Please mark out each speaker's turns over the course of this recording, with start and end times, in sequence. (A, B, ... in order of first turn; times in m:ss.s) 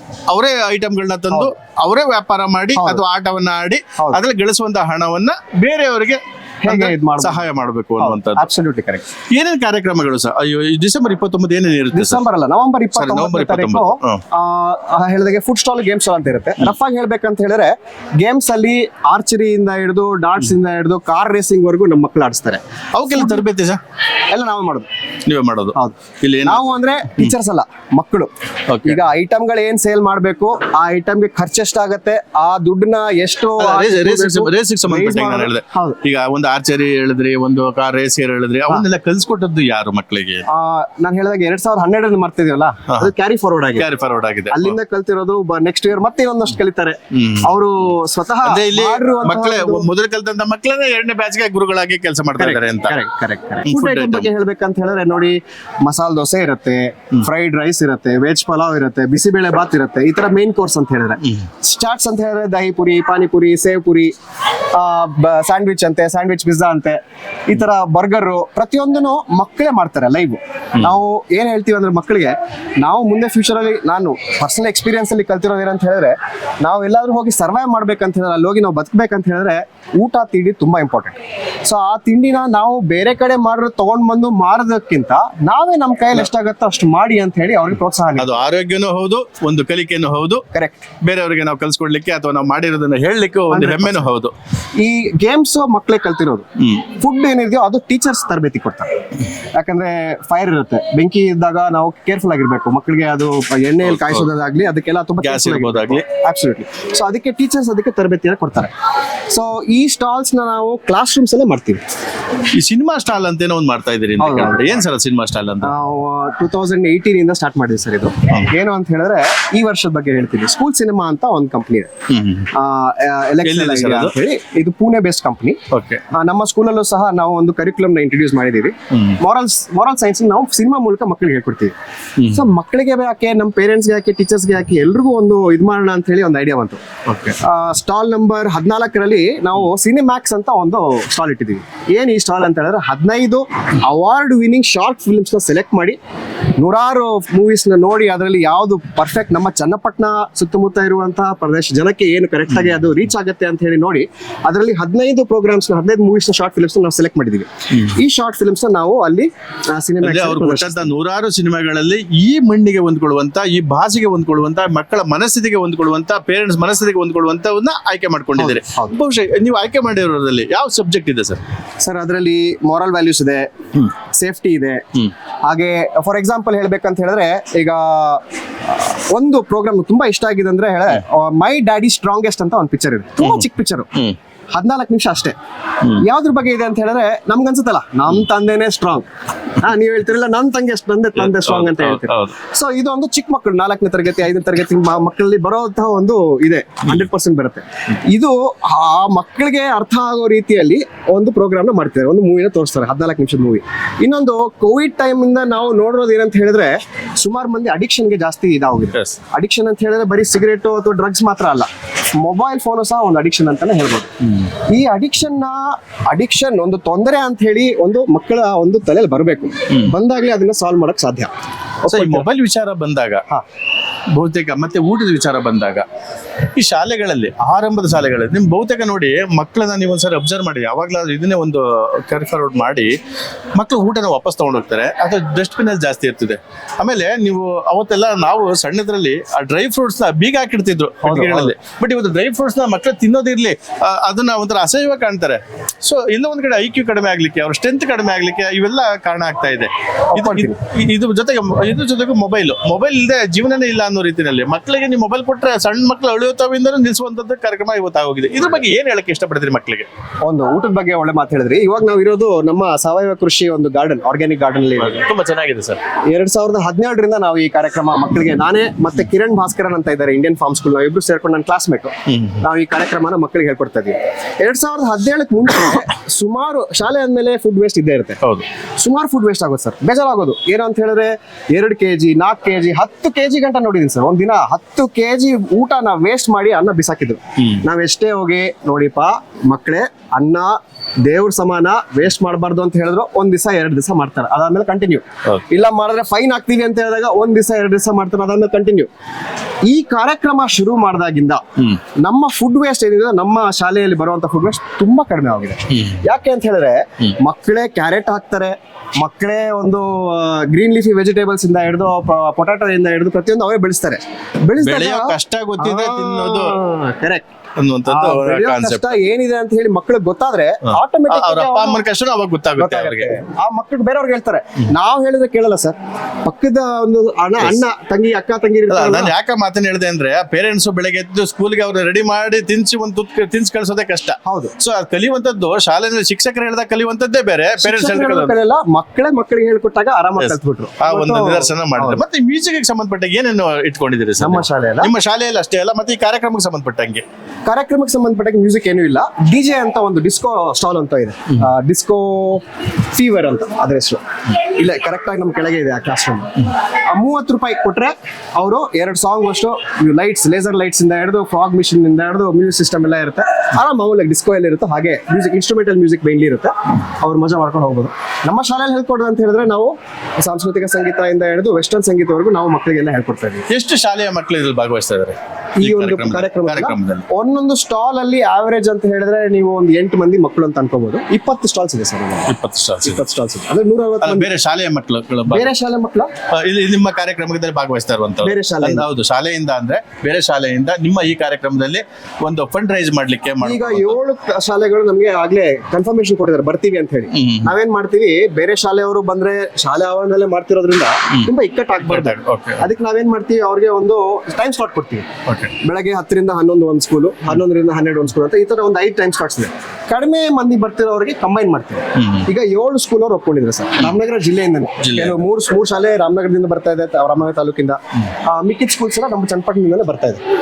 0:00.3-0:08.5 A
0:02.8-0:03.0 B
0:06.6-0:07.5 B
0:08.0-0:09.1 B
0:09.3-0:12.2 A
0:11.9-0:23.5 B
0:13.0-0:14.2 A
0:22.9-0:23.8 A
0:24.3-0:24.9 B
0:25.3-0:27.3 A
0:25.7-0:28.3 B
0:28.7-0:29.0 A
0:28.8-0:36.0 B
0:33.6-0:40.5 A
0:40.5-0:43.9 B
0:43.8-0:44.8 A
0:44.5-0:49.9 B
0:47.1-0:47.5 A
0:48.4-0:53.0 A
0:52.4-1:04.1 B
0:53.6-0:54.3 A
1:04.7-1:28.4 B
1:28.2-1:30.4 A
1:30.5-1:30.9 B
1:31.0-1:34.3 A
1:33.5-1:34.1 B
1:34.8-1:36.4 B
1:36.6-1:36.9 A
1:37.0-1:38.9 B
1:39.6-1:48.7 B
1:43.8-1:44.3 A
1:45.2-1:46.1 A
1:49.3-1:51.8 B
1:52.6-1:55.7 A
1:54.2-1:54.8 B
1:55.6-2:01.9 B
2:02.1-2:02.5 A
2:02.5-2:05.6 B
2:03.4-2:04.1 A
2:05.7-2:06.0 A
2:06.1-2:11.7 B
2:08.9-2:09.2 A
2:12.2-2:12.4 A
2:12.3-2:16.8 B
2:17.1-2:17.4 A
2:17.4-2:26.0 B
2:26.6-2:40.9 B
2:40.0-2:51.4 A
2:48.4-2:49.0 B
2:51.8-2:54.8 B
2:55.4-3:03.9 B
3:03.2-3:04.2 A
3:04.6-3:05.4 B
3:06.0-3:09.1 B
3:09.6-3:34.1 B
3:11.2-3:12.4 A
3:28.9-3:29.2 A
3:34.2-3:34.5 A
3:34.7-3:41.3 B
3:41.8-3:42.3 B
3:41.9-3:43.2 A
3:44.1-3:45.8 A
3:46.6-3:52.9 A
3:53.6-4:19.9 A
4:01.0-4:01.5 B
4:10.1-4:10.6 B
4:20.2-4:25.0 B
4:24.8-4:25.8 A
4:26.1-4:38.2 B
4:32.1-4:32.4 A
4:38.2-4:38.5 A
4:38.8-4:58.9 B
4:47.4-4:47.6 A
4:59.7-5:01.4 B
5:02.0-5:17.3 B
5:05.7-5:06.0 A
5:14.6-5:16.6 A
5:17.6-5:19.0 A
5:17.8-5:21.8 B
5:20.6-5:23.2 A
5:22.6-5:29.1 B
5:27.4-5:27.6 A
5:28.7-5:38.4 A
5:34.2-5:34.5 B
5:37.6-5:42.0 B
5:40.2-5:47.0 A
5:44.2-5:44.9 B
5:47.4-6:13.4 B
6:13.5-6:17.1 A
6:15.6-6:24.3 B
6:22.3-6:23.0 A
6:24.0-6:25.5 A
6:25.3-6:26.1 B
6:26.3-6:34.0 A
6:28.2-6:28.9 B
6:33.4-6:45.1 B
6:37.1-6:37.6 A
6:41.8-6:42.6 A
6:45.3-6:45.5 A
6:45.6-7:00.2 B
6:52.0-6:52.3 A
6:54.8-6:55.2 A